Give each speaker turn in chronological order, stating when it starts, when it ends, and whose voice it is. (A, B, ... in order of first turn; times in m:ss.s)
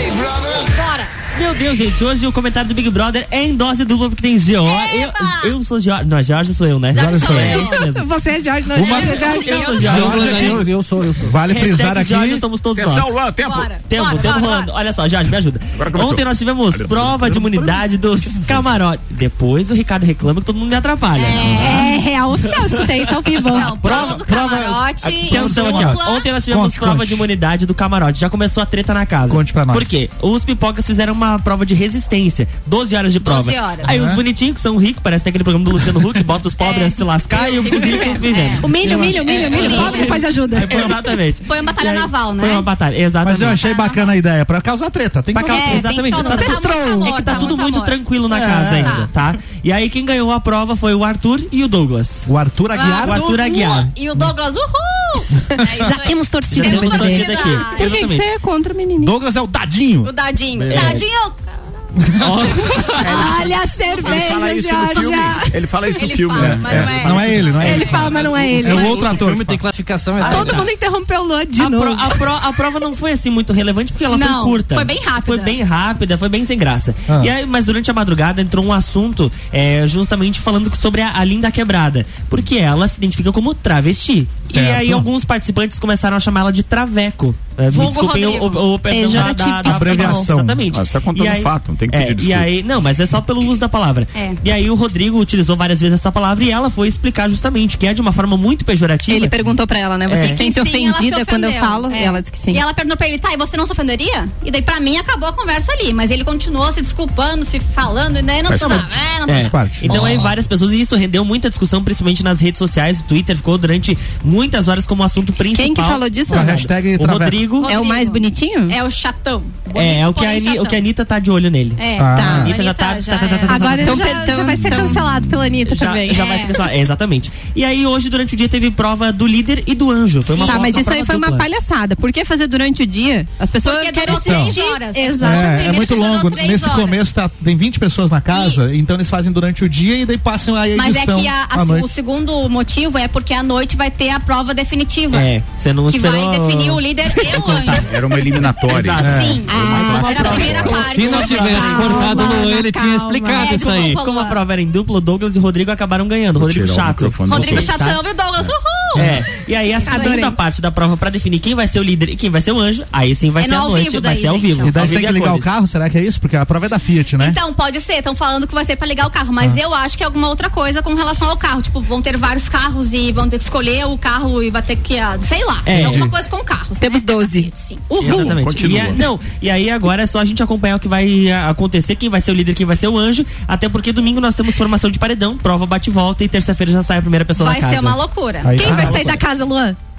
0:00.6-0:01.1 A
0:01.4-0:08.1 B
0:04.6-0:05.6 A
0:06.9-0:07.9 A
0:06.9-0:07.7 C
0:07.4-0:09.7 D
0:08.7-0:09.3 C
0:08.8-0:10.2 A
0:09.2-0:10.6 B
0:09.8-0:10.7 C
0:09.8-0:11.4 E
0:11.2-0:12.4 C
0:11.5-0:13.2 B
0:12.8-0:13.8 F
0:13.4-0:14.7 A
0:13.8-0:21.8 B
0:15.8-0:17.7 F
0:21.1-0:21.9 A
0:21.5-0:23.8 D
0:23.5-0:26.3 A
0:23.7-0:27.3 C
0:23.8-0:24.2 B
0:25.0-0:43.6 B
0:29.3-0:30.1 C
0:33.2-0:33.9 A
0:33.8-0:34.2 C
0:36.6-0:40.2 A
0:38.6-0:40.9 D
0:38.9-0:39.2 C
0:40.6-0:41.0 C
0:40.8-0:42.7 A
0:43.2-0:46.0 C
0:43.5-0:44.2 A
0:45.3-0:52.3 B
0:45.4-0:48.1 A
0:46.2-0:47.5 D
0:48.3-0:49.1 C
0:48.7-0:49.1 A
0:52.3-0:53.3 C
0:52.7-0:58.1 A
0:53.0-0:53.9 B
0:55.6-0:57.6 D
0:56.5-0:58.3 B
0:57.7-0:59.2 G
0:59.0-1:01.0 C
1:00.0-1:01.6 A
1:00.7-1:01.1 B
1:02.0-1:02.5 C
1:02.2-1:02.9 B
1:03.0-1:08.2 F
1:03.0-1:05.6 D
1:03.2-1:04.3 A
1:05.8-1:08.6 A
1:06.4-1:09.6 C
1:07.6-1:09.2 D
1:08.6-1:10.6 E
1:10.2-1:10.7 B
1:10.2-1:12.3 D
1:11.5-1:39.4 B
1:14.1-1:15.6 A
1:24.5-1:25.1 C
1:27.7-1:28.8 A
1:28.9-1:30.3 D
1:29.6-1:30.6 C
1:30.7-1:32.5 F
1:34.1-1:34.4 A
1:39.1-1:42.6 G
1:40.1-1:40.4 B
1:40.1-1:49.8 A
1:48.5-1:48.9 F
1:49.3-1:57.7 B
1:49.3-1:50.3 C
1:55.5-1:56.7 G
1:56.3-1:57.4 C
1:57.6-2:00.9 A
1:57.7-1:58.8 G
1:59.7-2:04.1 B
2:01.8-2:05.0 A
2:02.0-2:02.5 C
2:02.2-2:02.5 G
2:03.5-2:06.5 D
2:03.8-2:05.0 G
2:05.6-2:11.5 B
2:06.1-2:06.6 A
2:10.3-2:10.9 A
2:10.4-2:14.6 G
2:13.6-2:17.0 A
2:14.1-2:14.6 C
2:14.2-2:16.1 D
2:15.2-2:21.9 C
2:18.3-2:18.6 A
2:20.7-2:25.3 A
2:25.1-2:31.6 B
2:25.9-2:28.2 A
2:27.8-2:30.9 F
2:29.0-2:32.5 A
2:29.0-2:29.4 C
2:30.8-2:34.0 E
2:31.0-2:33.6 D
2:33.3-2:34.4 A
2:33.5-2:38.0 B
2:36.4-2:38.5 F
2:37.2-2:40.3 A
2:39.0-2:39.3 C
2:39.0-2:45.5 B
2:39.8-2:40.4 D
2:43.4-2:45.0 A
2:44.6-2:47.4 C
2:47.1-2:58.3 A
2:55.6-2:56.1 B
2:55.7-2:56.1 C
2:56.8-2:57.5 G
2:58.0-3:08.0 B
2:58.0-2:59.1 F
3:07.4-3:08.9 A
3:08.4-3:09.2 C
3:08.6-3:09.8 D
3:08.6-3:09.0 B